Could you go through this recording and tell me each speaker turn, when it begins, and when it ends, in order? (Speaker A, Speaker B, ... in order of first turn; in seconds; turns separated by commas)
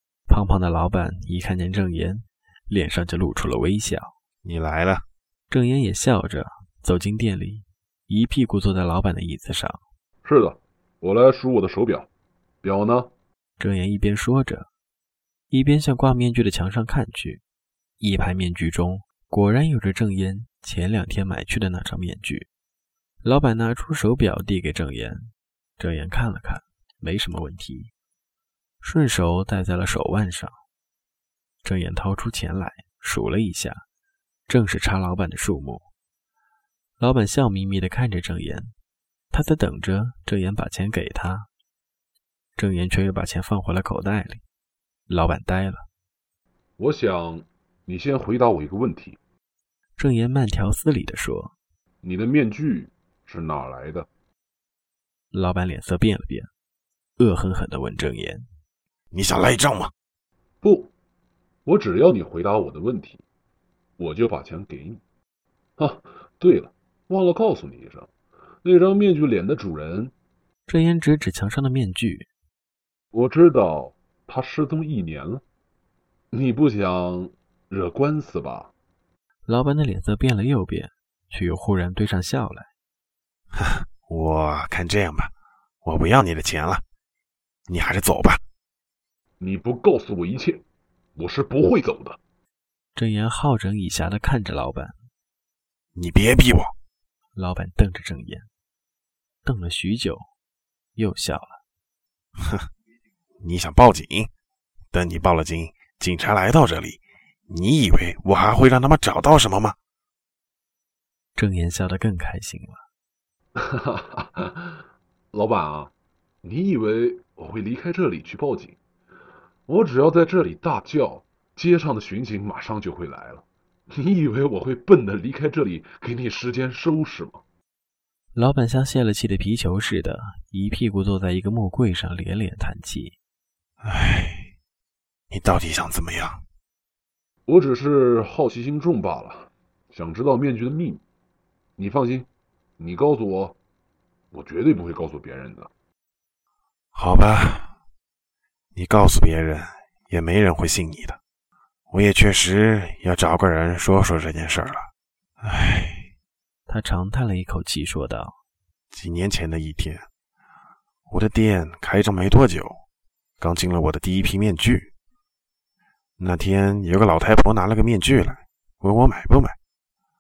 Speaker A: 0.3-4.1, Speaker B: 4.4-5.0, Speaker A: 5.5-9.8, Speaker C: 10.2-12.1, Speaker C: 12.6-13.1, Speaker A: 13.6-14.7, Speaker A: 15.5-17.4, Speaker A: 18.0-22.5, Speaker A: 23.2-27.9, Speaker A: 28.8-30.6, Speaker A: 31.6-33.8, Speaker A: 34.5-35.9, Speaker A: 37.0-38.7, Speaker A: 39.3-41.5, Speaker A: 42.5-44.4, Speaker A: 45.1-45.9, Speaker C: 46.8-49.2, Speaker A: 50.0-51.5, Speaker C: 52.0-54.1, Speaker A: 55.3-56.5, Speaker A: 57.2-58.5, Speaker B: 59.1-59.9, Speaker C: 60.6-60.9, Speaker C: 61.6-63.2, Speaker C: 64.0-65.0, Speaker C: 65.8-68.1, Speaker C: 68.6-70.1, Speaker A: 70.7-72.3, Speaker C: 73.1-75.4, Speaker C: 76.3-78.7, Speaker A: 79.5-82.7, Speaker B: 83.6-85.3, Speaker B: 85.8-86.8, Speaker B: 87.7-88.4, Speaker C: 89.4-90.6, Speaker C: 91.2-92.2, Speaker A: 92.9-95.1, Speaker B: 95.9-96.7, Speaker A: 97.3-98.5, Speaker A: 99.4-100.3, Speaker A: 101.0-101.6, Speaker B: 103.4-104.3, Speaker B: 104.9-109.8, Speaker A: 111.3-112.8, Speaker C: 113.5-115.9, Speaker C: 116.4-118.8, Speaker C: 119.7-127.4, Speaker A: 128.3-133.2, Speaker B: 133.8-134.5, Speaker B: 135.3-136.4, Speaker C: 137.5-141.0, Speaker C: 141.8-142.3, Speaker C: 142.8-143.6, Speaker C: 144.3-145.7, Speaker B: 146.9-147.7, Speaker B: 148.7-151.2, Speaker B: 151.9-154.9, Speaker B: 155.4-156.1, Speaker A: 156.7-158.4, Speaker B: 158.9-160.1, Speaker B: 161.1-162.8, Speaker B: 163.4-164.9, Speaker B: 166.2-169.6